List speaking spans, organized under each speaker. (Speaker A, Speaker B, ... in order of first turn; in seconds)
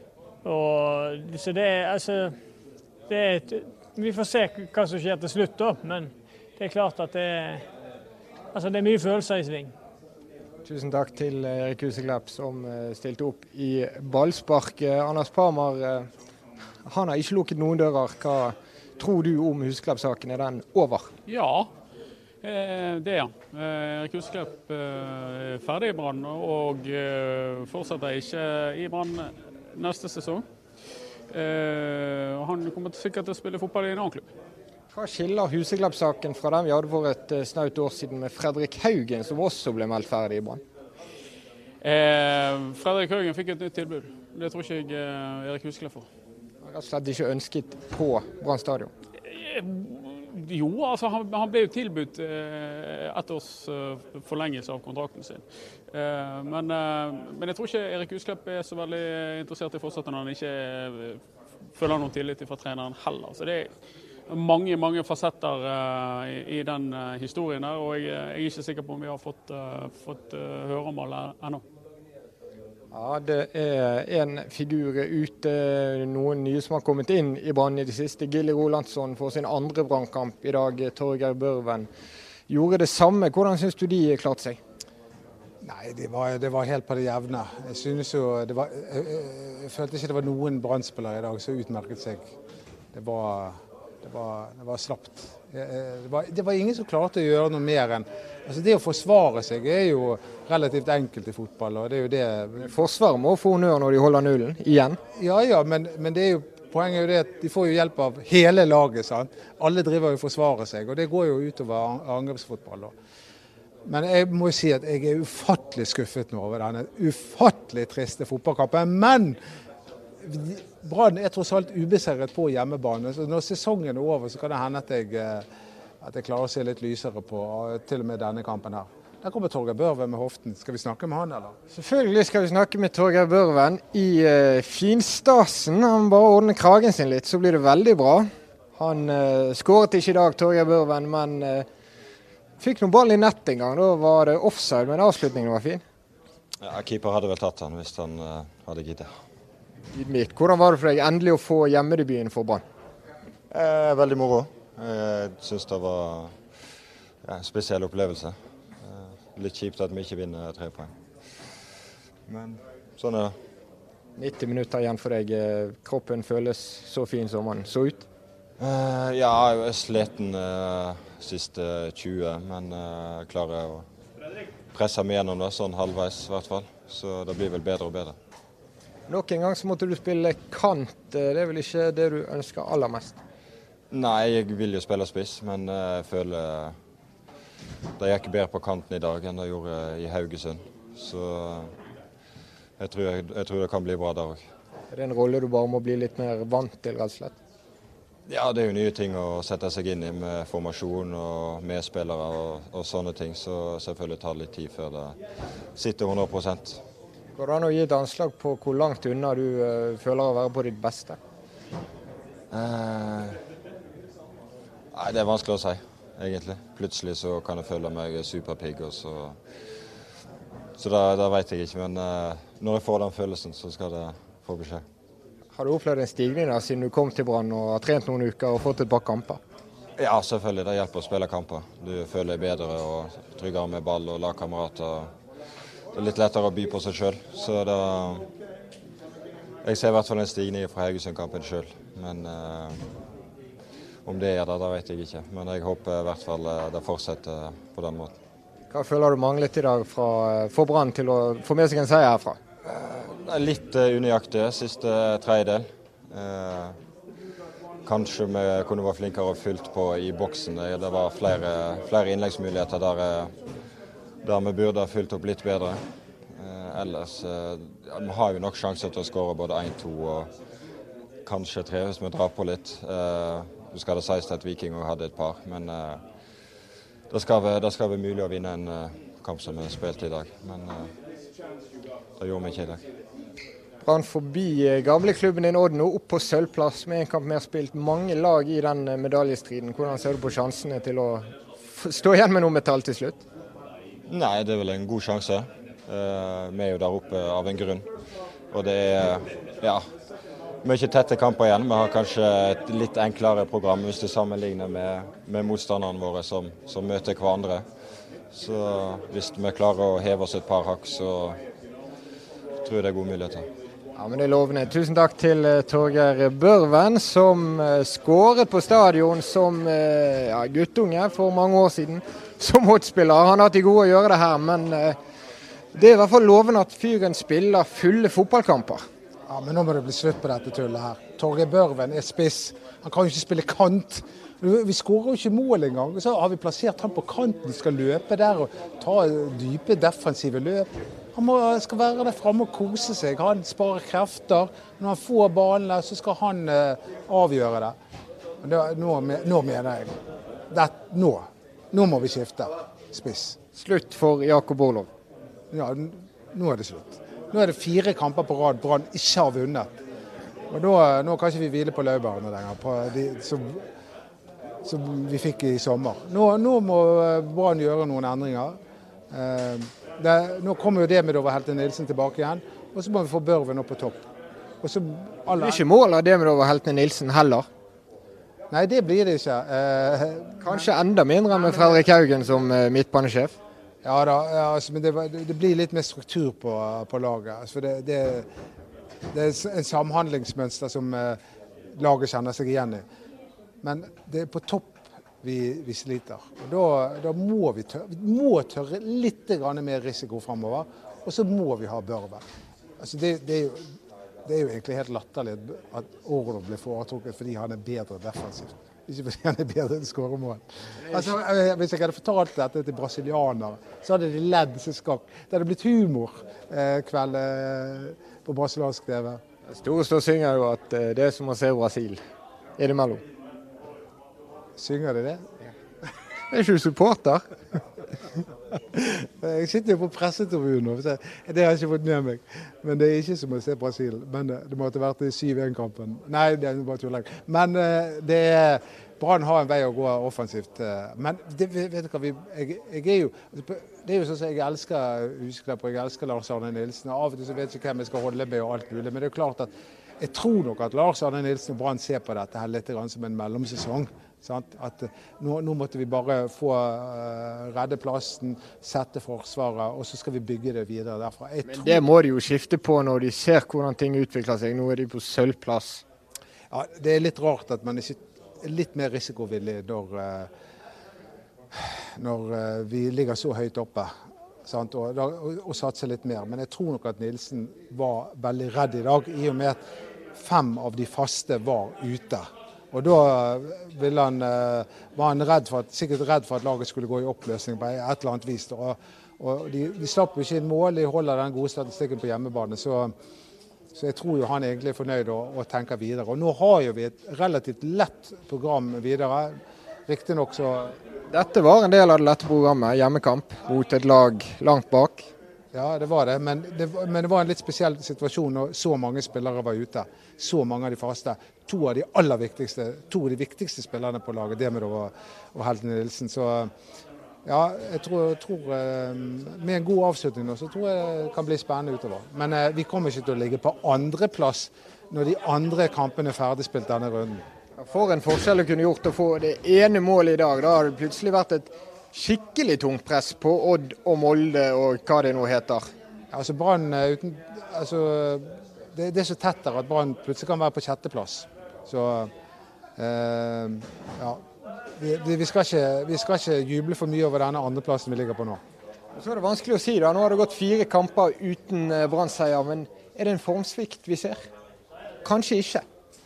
Speaker A: 0.4-2.4, 3.1-7.6, 8.5-9.7
Speaker B: 10.7-16.1, 16.9-21.1, 34.9-40.6, 46.6-48.9, 72.9-81.9, 82.5-84.6, 102.6-105.0, 131.7-141.7, 142.6-145.8, 149.9-152.6, 164.2-168.0, 179.1-183.2, 194.9-197.3, 207.4-211.2, 225.5-229.4, 248.7-252.4, 283.8-293.2, 314.0-325.0, 325.7-328.8, 353.5-354.9, 375.4-377.4, 380.4-383.3, 419.5-422.0, 422.6-423.0, 426.3-427.2, 461.4-465.8, 501.1-505.1, 527.6-535.7, 548.9-554.2, 555.0-555.6
Speaker C: 21.3-21.7, 22.4-30.4, 31.3-34.3, 41.8-46.1, 49.3-61.2, 61.7-63.7, 64.3-71.6
Speaker D: 85.6-92.2, 92.9-102.7, 105.2-112.9, 113.8-119.4, 120.2-125.5, 126.0-131.5, 329.3-347.8, 348.4-349.9, 350.5-353.4, 355.5-359.7, 360.5-363.6, 364.6-368.6, 369.1-374.0, 374.6-375.6, 378.5-380.7, 383.8-388.2, 389.1-391.2, 391.8-392.8, 393.6-402.2, 402.8-403.7, 404.2-419.2, 424.6-425.3, 428.7-461.8, 466.5-470.3, 471.5-473.9, 474.4-479.6, 480.1-492.9, 493.7-499.4, 499.9-500.8, 505.5-516.5, 517.2-527.2, 536.1-542.1, 542.8-544.2, 544.8-548.4
Speaker E: 146.6-149.1, 153.5-156.4, 157.2-160.9, 162.3-163.4, 168.6-173.9, 174.7-178.2, 183.9-186.8, 188.0-191.7, 192.8-194.5, 198.3-205.2, 205.7-206.8, 212.5-213.4, 214.9-219.4, 220.8-224.8, 230.0-235.1, 235.9-238.3, 239.6-242.8, 244.0-248.1, 252.6-256.8, 257.8-263.3, 264.2-265.8, 266.3-270.3, 271.2-276.0, 277.1-280.9, 282.2-282.8, 294.1-297.9, 298.5-299.9, 300.6-307.6, 308.3-311.4, 312.6-313.5